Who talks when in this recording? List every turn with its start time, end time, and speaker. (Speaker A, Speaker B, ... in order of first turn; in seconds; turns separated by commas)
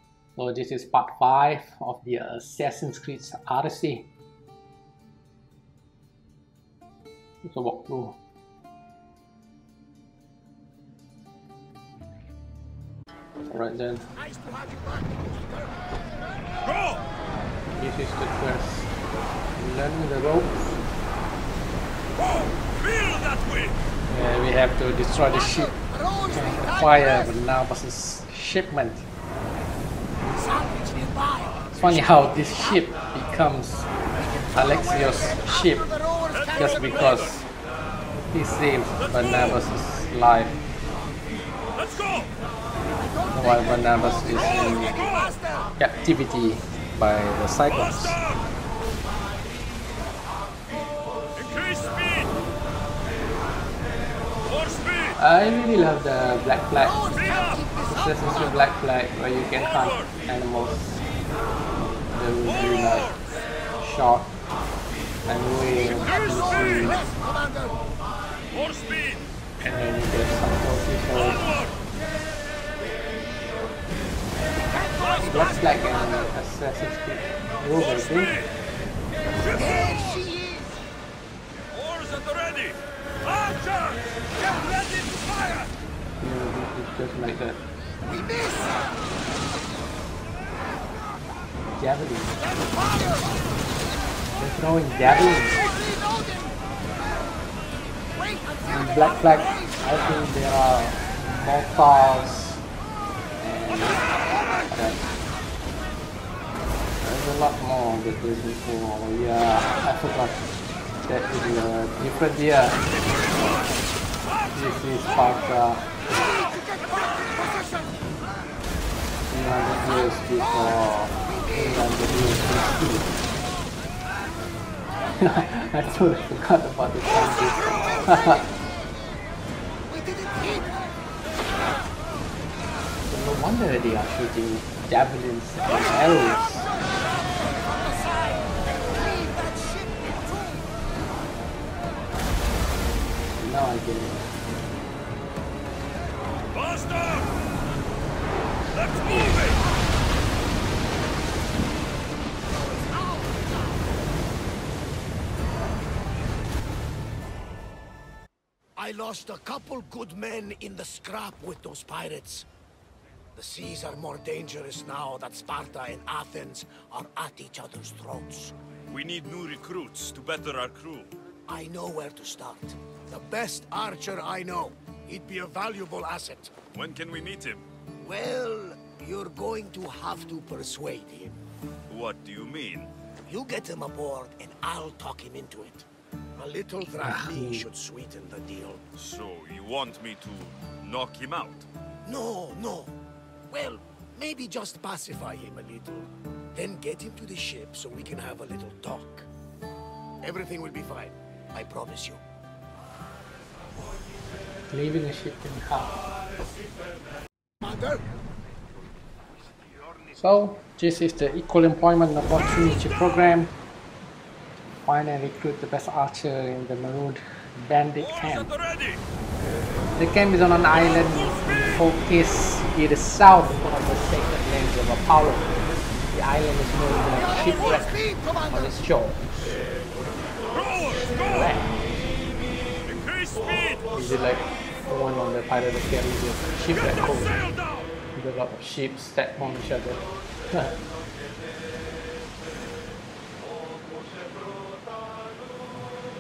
Speaker A: 0.4-4.1, Speaker A: 7.4-8.2, Speaker A: 13.5-14.1, Speaker B: 14.2-16.5, Speaker C: 16.6-17.0, Speaker A: 17.8-18.9, Speaker A: 19.6-20.8, Speaker C: 22.2-23.8, Speaker A: 24.1-25.8, Speaker B: 25.3-27.3, Speaker A: 26.3-29.1, Speaker B: 30.3-32.9, Speaker A: 31.7-33.9, Speaker B: 34.2-37.0, Speaker A: 34.5-35.9, Speaker C: 36.3-37.4, Speaker A: 36.5-37.5, Speaker A: 38.3-40.6, Speaker C: 39.0-39.6, Speaker C: 41.8-42.3, Speaker B: 43.0-45.7, Speaker A: 43.3-45.0, Speaker C: 44.4-45.3, Speaker A: 45.8-48.2, Speaker C: 47.7-48.5, Speaker C: 51.4-52.3, Speaker C: 54.5-55.2, Speaker A: 55.2-57.0, Speaker B: 56.8-58.6, Speaker C: 57.1-57.7, Speaker A: 57.9-61.0, Speaker C: 59.6-60.1, Speaker A: 62.1-63.2, Speaker C: 62.5-63.3, Speaker A: 63.8-64.4, Speaker A: 65.3-67.0, Speaker B: 65.7-67.8, Speaker C: 68.5-69.3, Speaker A: 69.6-71.5, Speaker C: 71.2-71.8, Speaker B: 74.7-76.2, Speaker A: 75.2-78.3, Speaker C: 77.8-78.5, Speaker B: 79.5-80.8, Speaker C: 81.7-85.7, Speaker A: 86.2-87.6, Speaker B: 88.1-89.0, Speaker A: 91.8-92.4, Speaker B: 92.5-93.4, Speaker A: 94.4-95.6, Speaker B: 95.3-96.6, Speaker B: 98.0-99.8, Speaker A: 98.7-102.6, Speaker A: 103.4-104.1, Speaker A: 104.7-105.0, Speaker A: 107.0-110.5, Speaker A: 111.0-112.9, Speaker A: 114.5-115.9, Speaker B: 116.2-118.0, Speaker A: 119.3-123.2, Speaker A: 125.2-128.5, Speaker B: 127.9-128.4, Speaker B: 129.9-130.9, Speaker A: 133.1-136.7, Speaker B: 136.7-140.7, Speaker A: 143.4-144.3, Speaker C: 146.5-147.5, Speaker C: 148.7-149.6, Speaker B: 152.5-153.9, Speaker B: 158.8-162.5, Speaker B: 163.3-168.6, Speaker C: 168.9-171.1, Speaker B: 171.5-176.5, Speaker C: 176.7-177.7, Speaker B: 178.0-181.4, Speaker C: 181.9-182.9, Speaker B: 183.3-188.8, Speaker A: 187.0-187.7, Speaker C: 189.0-191.7, Speaker B: 192.1-193.0, Speaker B: 193.5-199.3, Speaker B: 200.2-202.2, Speaker A: 204.7-206.0, Speaker B: 207.6-208.1, Speaker A: 210.1-213.6, Speaker A: 214.8-218.5, Speaker C: 218.0-219.0, Speaker A: 220.0-225.6, Speaker A: 226.1-229.3, Speaker B: 227.1-228.8, Speaker C: 230.5-231.4, Speaker A: 231.2-231.8, Speaker C: 232.8-233.9, Speaker A: 233.9-237.4, Speaker C: 237.0-237.9, Speaker A: 238.2-240.8